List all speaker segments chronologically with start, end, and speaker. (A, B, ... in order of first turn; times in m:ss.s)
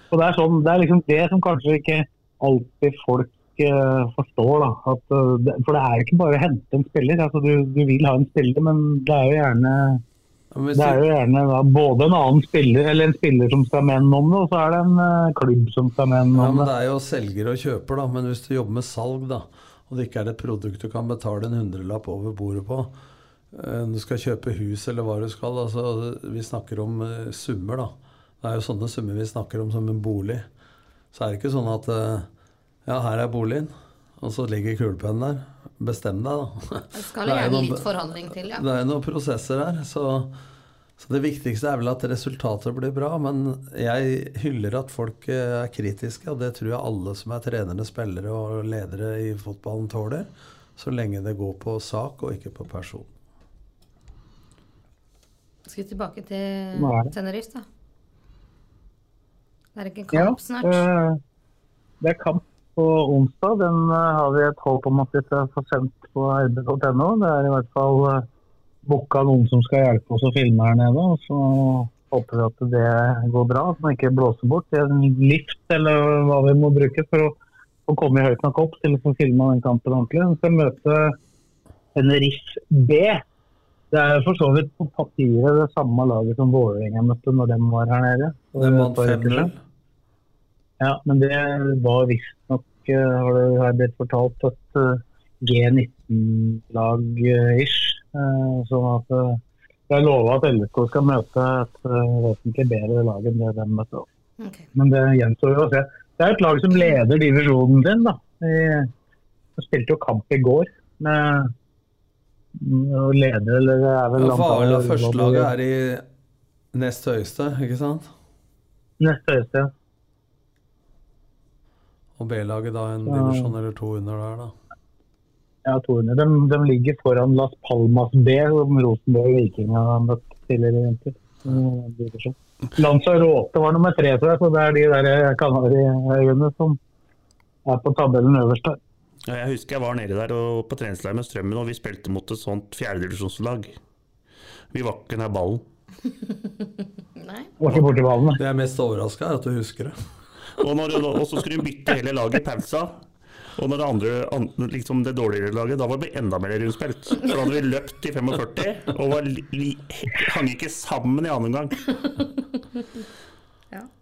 0:00.1-0:10.0 A
0:10.5-0:11.0 B
0:10.8-0:16.7 A
0:16.3-0:22.9 B
0:23.5-0:30.4 B
0:31.1-0:32.3 B
0:32.8-0:37.9 B
0:36.9-0:38.6 C
0:38.6-0:40.3 B
0:41.0-0:53.1 B
0:55.6-0:57.6 C
0:56.7-0:57.1 A
0:59.8-1:00.8 C
1:00.1-1:01.2 A
1:02.0-1:08.2 A
1:08.8-1:17.4 A
1:17.9-1:21.2 A
1:21.9-1:23.2 A
1:23.9-1:29.5 A
1:28.6-1:29.6 B
1:30.8-1:44.0 A
1:44.4-1:44.7 C
1:44.7-1:48.9 A
1:49.6-1:51.5 A
1:52.6-1:55.5 A
1:54.2-1:56.0 B
1:56.7-1:58.1 B
1:59.0-1:59.7 A
2:02.2-2:04.5 B
2:03.0-2:03.5 A
2:05.6-2:16.8 A
2:17.6-2:18.8 A
2:19.3-2:23.8 D
2:24.7-2:25.6 D
2:27.2-2:27.5 C
2:27.6-2:28.4 A
2:28.3-2:29.9 B
2:30.6-2:32.9 D
2:33.6-2:41.9 D